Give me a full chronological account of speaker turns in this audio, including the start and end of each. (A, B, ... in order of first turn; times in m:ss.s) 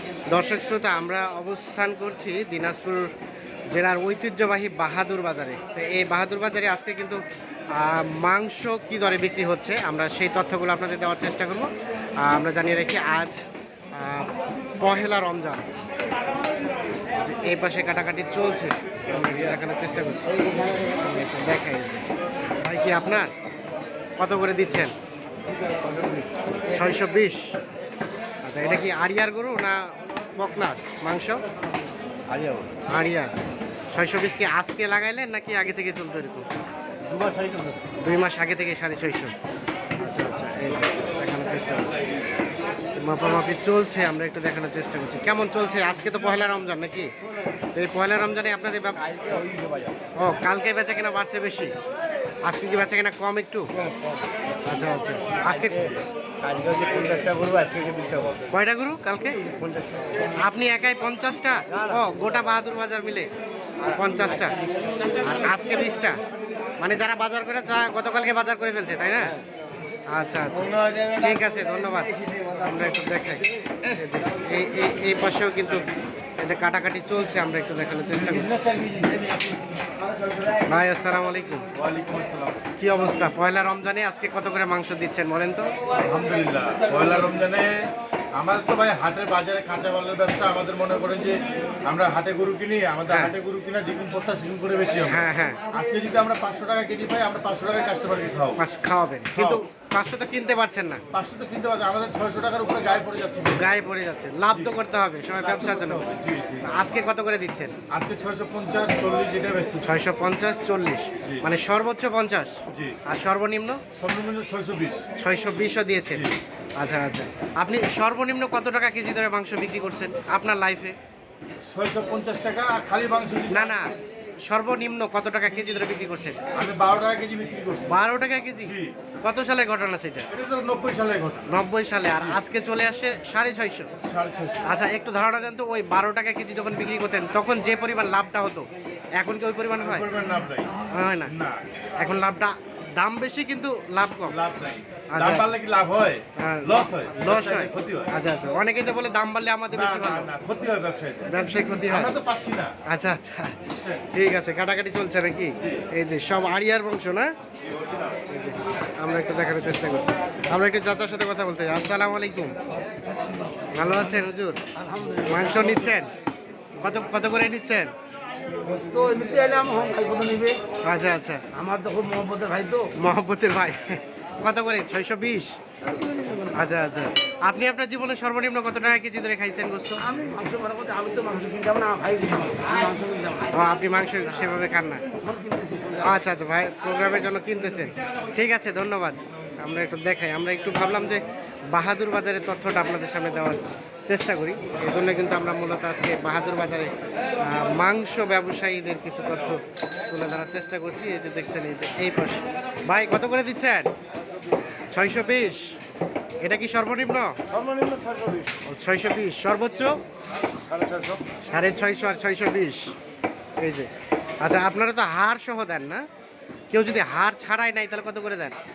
0:00.3-0:03.1 A
0:03.7-0:07.2 A
0:07.7-0:13.4 A
0:13.9-0:15.6 A
0:17.2-0:20.4 A
0:21.0-0:22.0 A
0:22.6-0:23.3 A
0:24.2-0:24.9 A
0:25.8-0:26.3 B
0:26.7-0:27.6 A
0:28.4-0:31.4 A
0:32.3-0:32.7 B
0:32.9-0:33.3 A
0:33.9-0:36.4 A
0:37.0-0:37.8 B
0:38.0-0:39.3 A
0:40.0-0:42.0 A
0:43.0-0:47.1 A
0:47.7-0:49.1 A
0:49.0-0:49.9 B
0:50.2-0:51.7 A
0:52.4-0:53.8 A
0:53.7-0:54.2 B
0:54.6-0:55.9 A
0:55.5-0:58.4 B
0:58.5-0:59.4 A
0:59.5-1:00.3 B
1:00.4-1:03.3 A
1:01.7-1:02.1 B
1:03.8-1:04.6 B
1:03.8-1:04.6 A
1:05.2-1:06.2 A
1:06.8-1:09.4 A
1:10.1-1:15.8 A
1:16.4-1:18.6 A
1:18.6-1:19.3 B
1:20.6-1:21.6 A
1:21.7-1:22.6 C
1:22.8-1:25.7 A
1:26.0-1:38.6 C
1:33.1-1:33.3 A
1:35.0-1:35.6 A
1:38.6-1:41.0 A
1:39.3-1:39.6 C
1:41.1-1:43.7 C
1:43.5-1:46.0 A
1:45.4-1:46.7 C
1:46.6-1:47.7 A
1:47.9-1:49.9 C
1:49.8-1:53.8 A
1:52.7-1:53.0 C
1:54.0-1:55.0 C
1:55.2-1:56.2 A
1:56.8-2:01.0 A
2:01.7-2:03.8 C
2:03.5-2:03.9 A
2:04.5-2:06.4 A
2:06.5-2:08.0 C
2:07.9-2:10.3 A
2:08.6-2:08.9 C
2:10.3-2:11.5 C
2:11.5-2:13.9 A
2:14.0-2:14.6 C
2:14.6-2:18.7 A
2:19.2-2:20.1 A
2:19.8-2:20.7 C
2:20.9-2:21.4 A
2:21.3-2:21.6 C
2:22.0-2:24.4 A
2:24.3-2:28.1 C
2:25.1-2:25.5 A
2:26.4-2:30.3 A
2:29.7-2:32.8 C
2:31.2-2:32.2 A
2:32.8-2:33.6 A
2:33.7-2:34.0 C
2:34.1-2:37.3 A
2:38.3-2:42.6 A
2:43.7-2:44.6 A
2:44.8-2:45.9 B
2:45.3-2:46.1 A
2:46.8-2:47.9 A
2:48.6-2:50.6 B
2:50.8-2:51.4 A
2:51.5-2:52.9 B
2:52.9-2:55.6 A
2:55.8-2:56.6 B
2:56.5-3:00.0 A
3:00.0-3:03.6 B
3:03.5-3:05.0 A
3:05.2-3:06.1 B
3:06.0-3:23.9 A
3:24.9-3:25.7 A
3:26.4-3:27.3 A
3:27.5-3:28.6 B
3:28.6-3:29.9 A
3:30.6-3:31.2 B
3:31.4-3:32.9 A
3:33.6-3:33.9 A
3:34.4-3:36.0 A
3:36.7-3:38.6 A